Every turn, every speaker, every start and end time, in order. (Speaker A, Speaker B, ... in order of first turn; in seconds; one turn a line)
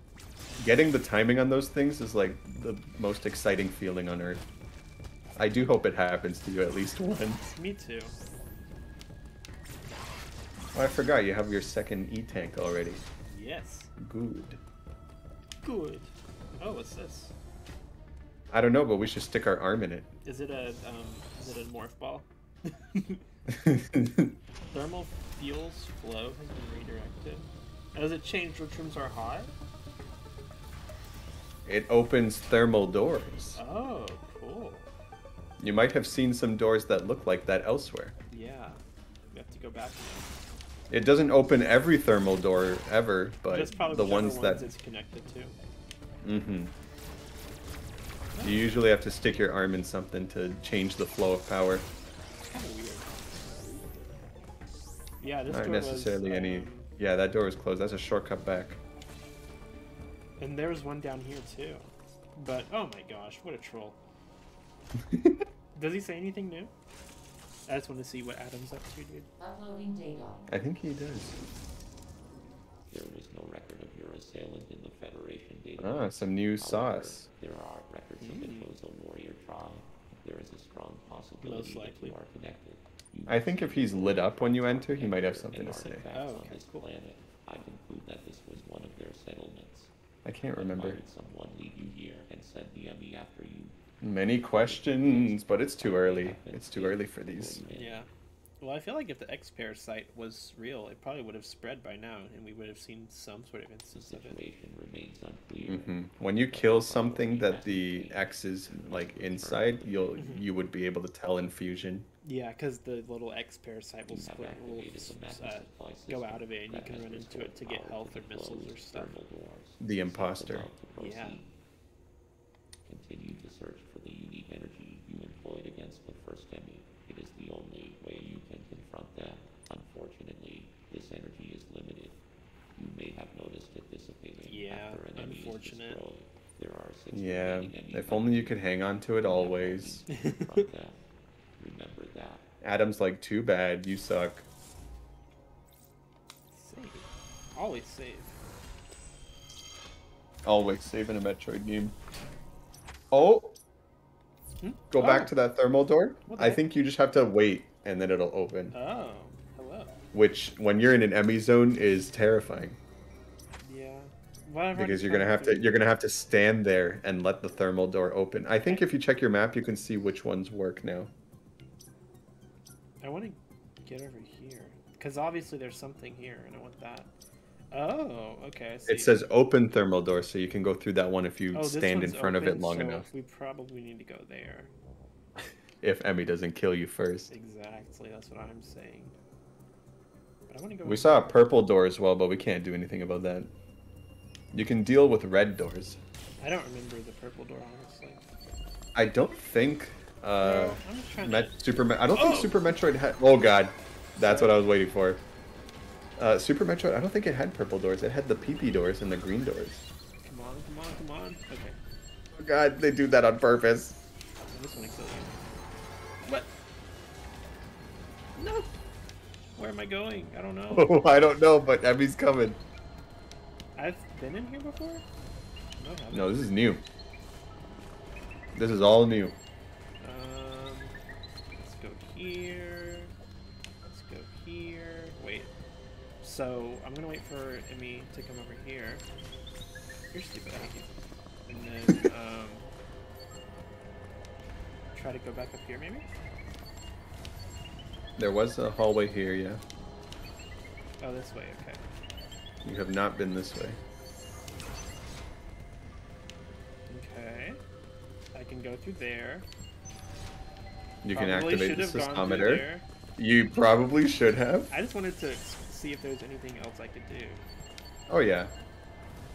Speaker A: 0.6-4.5
Speaker A: 5.4-7.5
Speaker B: 7.5-8.2
Speaker A: 10.7-13.0
Speaker B: 13.3-13.9
Speaker A: 14.0-14.6
Speaker B: 15.6-17.3
Speaker A: 18.5-20.1
Speaker B: 20.2-23.2
Speaker A: 23.5-24.3
Speaker B: 24.7-29.5
Speaker A: 31.7-33.6
Speaker B: 33.6-34.9
Speaker A: 35.6-38.1
Speaker B: 38.3-38.8
Speaker B: 39.3-40.3
Speaker A: 40.9-44.7
Speaker B: 43.5-45.6
Speaker A: 46.2-46.7
Speaker B: 48.3-48.8
Speaker A: 48.4-51.9
Speaker B: 52.5-53.1
Speaker B: 55.2-56.9
Speaker A: 55.5-58.8
Speaker B: 60.4-64.0
Speaker A: 65.1-65.4
Speaker B: 65.8-66.7
Speaker B: 67.7-69.3
Speaker C: 69.4-70.5
Speaker A: 70.5-71.4
Speaker C: 72.9-89.9
Speaker A: 75.8-77.3
Speaker B: 78.2-78.7
Speaker B: 81.4-82.2
Speaker A: 83.3-86.0
Speaker B: 86.1-86.8
Speaker A: 90.2-91.0
Speaker C: 90.5-93.8
Speaker A: 94.0-97.6
Speaker C: 94.5-98.0
Speaker B: 97.7-98.1
Speaker B: 98.6-104.4
Speaker C: 103.9-110.1
Speaker A: 105.7-112.1
Speaker B: 110.2-110.5
Speaker B: 112.2-119.2
Speaker C: 114.1-121.5
Speaker A: 119.8-120.7
Speaker B: 121.0-121.4
Speaker C: 122.9-132.2
Speaker C: 132.8-138.6
Speaker B: 134.4-136.0
Speaker A: 137.1-140.1
Speaker C: 139.2-141.0
Speaker B: 140.1-140.7
Speaker C: 141.6-142.4
Speaker A: 142.6-144.4
Speaker B: 146.5-148.3
Speaker A: 150.4-152.0
Speaker A: 153.1-153.6
Speaker B: 154.6-155.3
Speaker A: 154.9-158.8
Speaker B: 156.3-156.6
Speaker B: 158.7-159.9
Speaker A: 160.1-162.8
Speaker B: 163.6-165.7
Speaker A: 164.8-171.1
Speaker B: 168.6-168.9
Speaker B: 173.0-177.1
Speaker B: 177.7-179.2
Speaker A: 178.9-183.1
Speaker B: 181.5-184.7
Speaker A: 185.8-187.3
Speaker B: 187.3-189.1
Speaker B: 190.5-191.4
Speaker A: 190.8-193.5
Speaker A: 194.5-196.0
Speaker B: 196.4-198.2
Speaker A: 198.9-205.2
Speaker B: 200.4-202.7
Speaker B: 204.2-204.6
Speaker A: 206.2-209.8
Speaker B: 210.2-211.8
Speaker A: 212.3-214.0
Speaker B: 214.5-215.4
Speaker B: 218.4-218.7
Speaker B: 219.6-221.0
Speaker A: 220.7-222.6
Speaker B: 223.8-225.1
Speaker B: 225.8-226.5
Speaker A: 226.1-226.8
Speaker A: 228.5-229.4
Speaker B: 230.0-231.0
Speaker B: 231.6-233.1
Speaker B: 233.9-235.5
Speaker B: 236.2-239.0
Speaker B: 240.1-241.0
Speaker B: 241.5-242.7
Speaker B: 244.9-246.1
Speaker A: 248.2-249.6
Speaker B: 251.0-251.8
Speaker A: 252.6-253.8
Speaker B: 256.9-257.6
Speaker B: 258.3-259.5
Speaker A: 261.0-264.7
Speaker B: 261.1-262.9
Speaker B: 264.7-267.4
Speaker A: 268.1-268.5